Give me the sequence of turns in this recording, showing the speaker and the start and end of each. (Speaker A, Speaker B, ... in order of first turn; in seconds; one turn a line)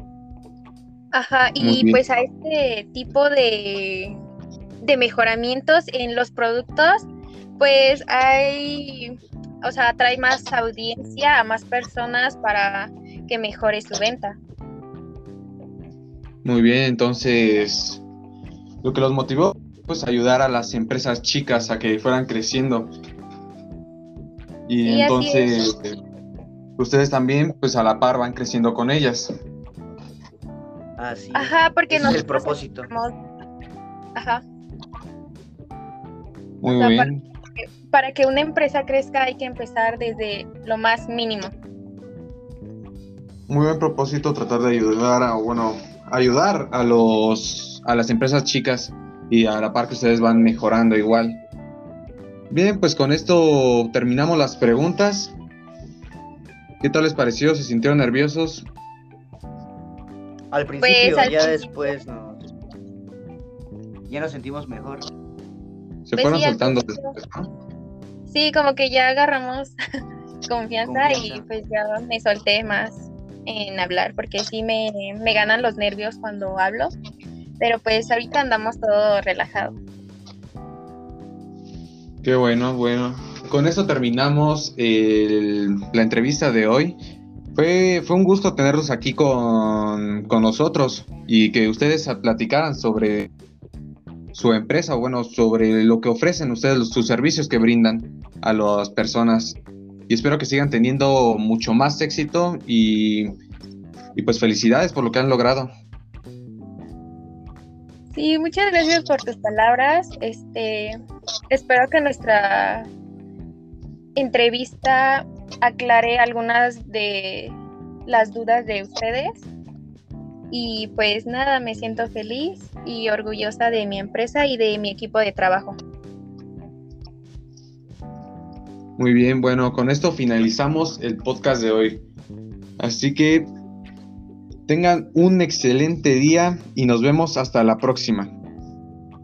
Speaker A: 1.1-4.2
Speaker B: 1.6-2.0
Speaker A: 4.8-14.4
Speaker B: 16.4-18.0
Speaker B: 18.8-22.9
Speaker B: 24.7-26.0
Speaker A: 24.8-25.6
Speaker B: 26.8-29.3
Speaker C: 31.0-32.9
Speaker A: 31.4-33.1
Speaker A: 34.1-34.4
Speaker B: 36.6-37.2
Speaker A: 36.7-41.5
Speaker B: 43.5-51.4
Speaker B: 52.5-55.4
Speaker B: 56.8-58.7
Speaker C: 60.5-62.5
Speaker A: 60.8-61.9
Speaker C: 64.1-65.0
Speaker B: 66.0-67.5
Speaker A: 66.2-67.1
Speaker A: 68.3-69.8
Speaker A: 70.5-76.9
Speaker C: 70.8-71.4
Speaker A: 77.6-79.8
Speaker B: 82.2-87.0
Speaker B: 87.5-93.3
Speaker B: 94.3-103.3
Speaker B: 104.1-105.7
Speaker A: 108.1-111.0
Speaker A: 111.5-112.9
Speaker A: 114.1-119.5
Speaker A: 120.5-125.8
Speaker B: 129.0-132.1
Speaker B: 132.8-133.5
Speaker B: 134.7-138.4